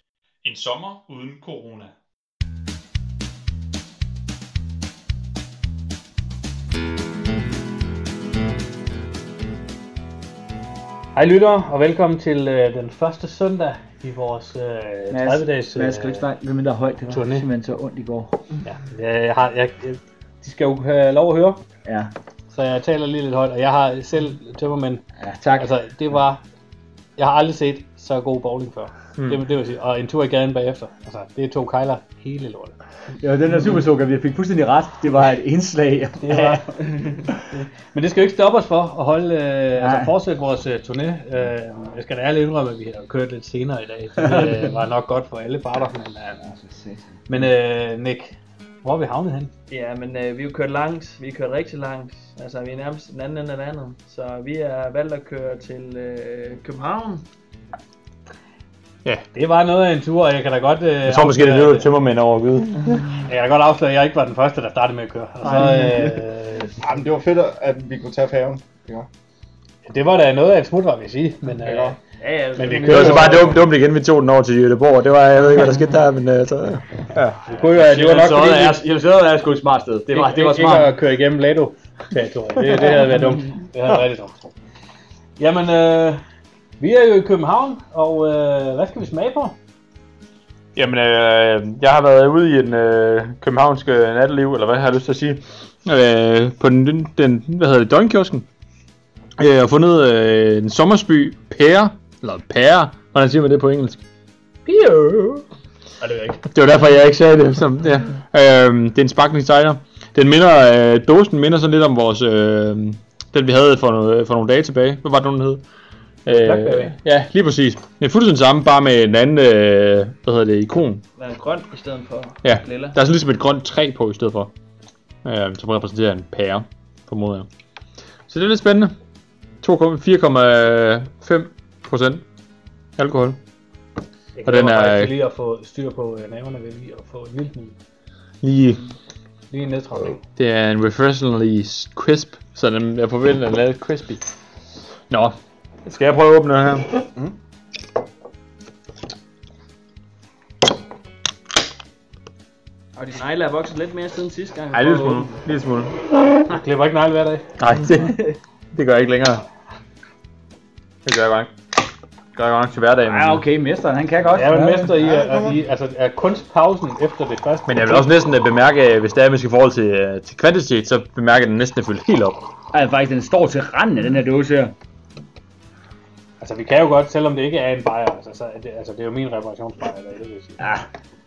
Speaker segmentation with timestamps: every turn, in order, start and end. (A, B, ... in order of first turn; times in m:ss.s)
0:00.4-0:01.9 A
0:11.1-0:16.2 B
0:15.1-0:18.5 C
0:17.1-0:17.5 B
0:18.6-0:21.6 B
0:21.8-0:22.1 C
0:22.5-0:25.0 B
0:25.2-0:25.7 C
0:25.6-0:26.4 B
0:27.2-0:32.8 B
0:33.2-0:36.6 C
0:36.2-0:46.4 B
0:36.8-0:37.2 D
0:39.8-0:40.1 C
0:44.2-0:44.7 C
0:46.4-0:47.5 C
0:47.3-0:49.5 B
0:49.7-0:57.2 D
0:59.3-1:01.9 B
1:01.0-1:03.1 A
1:03.2-1:06.7 B
1:06.8-1:09.1 E
1:09.8-1:11.9 B
1:11.6-1:12.0 E
1:12.2-1:13.6 D
1:12.6-1:13.4 B
1:12.8-1:17.4 A
1:17.4-1:18.8 B
1:17.8-1:20.9 C
1:20.1-1:24.3 B
1:25.4-1:26.2 B
1:26.8-1:29.6 B
1:30.8-1:38.4 A
1:39.4-1:44.0 A
1:44.6-1:45.4 A
1:46.0-1:46.4 B
1:46.4-1:55.6 A
1:56.2-2:01.0 A
1:56.4-1:56.9 B
1:56.6-1:56.9 C
2:01.2-2:03.0 D
2:02.4-2:04.5 A
2:05.2-2:07.5 A
2:08.3-2:08.9 A
2:09.6-2:12.2 A
2:13.0-2:13.4 A
2:14.3-2:17.8 B
2:14.4-2:15.1 A
2:18.4-2:18.8 A
2:19.5-2:20.2 B
2:20.4-2:24.2 A
2:25.1-2:27.1 A
2:33.0-2:35.4 D
2:34.7-2:36.0 A
2:36.5-2:37.5 B
2:37.6-2:39.4 A
2:41.0-2:41.5 A
2:42.3-2:43.4 A
2:43.0-2:45.0 C
2:44.3-2:48.1 B
2:44.8-2:45.6 E
2:47.7-2:52.4 A
2:52.7-2:54.7 C
2:56.4-3:00.7 B
3:00.6-3:00.8 C